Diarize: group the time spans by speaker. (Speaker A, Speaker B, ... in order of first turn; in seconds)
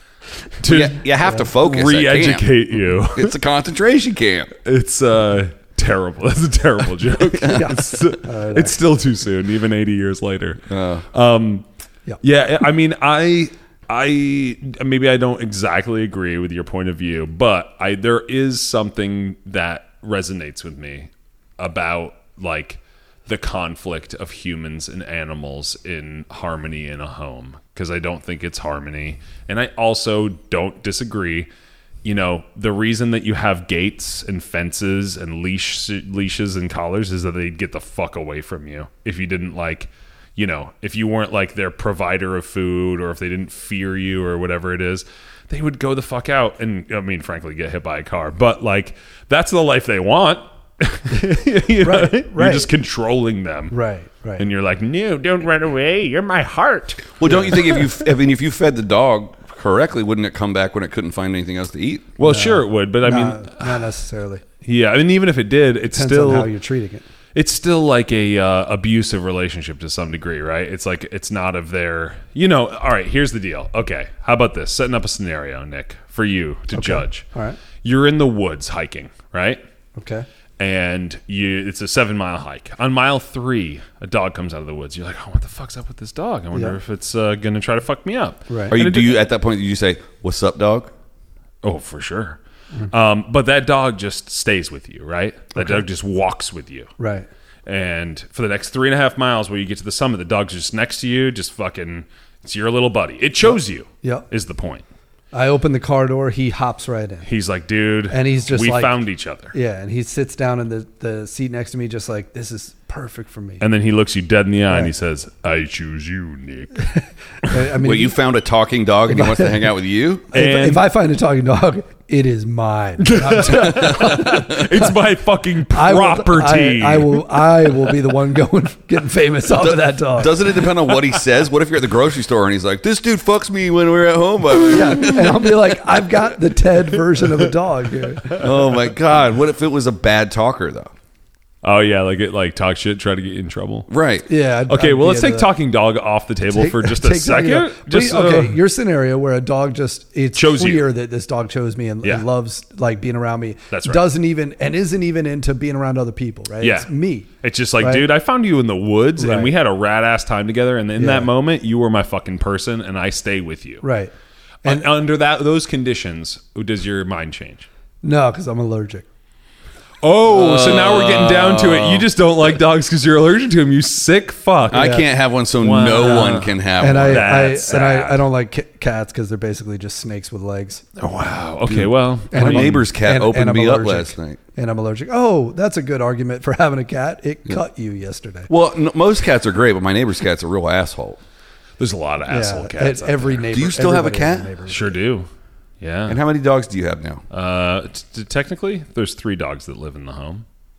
Speaker A: 0.6-3.4, 4.6-10.6, 11.1-11.6, 12.2-31.5, 32.0-53.8, 54.4-57.2, 62.2-63.9, 64.6-66.5, 67.3-77.2, 77.8-79.6, 80.6-89.2, 91.6-92.4, 92.9-96.9, 97.7-104.8, 107.2-109.5, 113.6-116.9, 120.3-120.8, 123.0-127.2, 141.6-143.9, 144.7-148.6, 150.3-150.9, 153.7-154.0, 156.6-156.9, 157.4-163.8, 164.6-167.7, 170.0-175.0, 175.6-178.2, 181.0-182.9, 191.8-193.4, 194.7-195.3, 195.8-196.2, 197.3-200.4
Speaker B: 0.6-2.5, 3.1-4.5, 10.7-11.1, 57.2-62.1, 88.7-90.9, 117.8-120.3, 123.5-124.6, 129.6-135.6, 138.3-140.9, 143.9-144.3, 170.3-172.1, 174.7-177.4, 181.7-184.4, 188.5-191.2, 193.5-194.5, 196.1-197.2
Speaker C: 7.4-8.8, 51.8-52.7, 53.7-54.5, 57.2-57.7, 62.2-64.4, 65.9-67.0, 76.7-77.6, 80.0-80.3, 86.5-86.8, 88.5-88.7, 95.5-95.8, 97.0-97.3, 103.4-104.3, 105.3-107.3, 108.1-109.0, 109.5-113.6, 116.8-118.2, 119.1-119.7, 120.3-124.9, 125.7-130.6, 134.7-138.4, 144.3-145.5, 146.5-157.3, 157.8-158.1, 159.2-159.5, 161.0-161.3, 163.8-164.1, 164.6-164.9, 168.0-169.1, 174.7-175.0, 176.8-180.8, 182.3-188.5, 192.3-195.0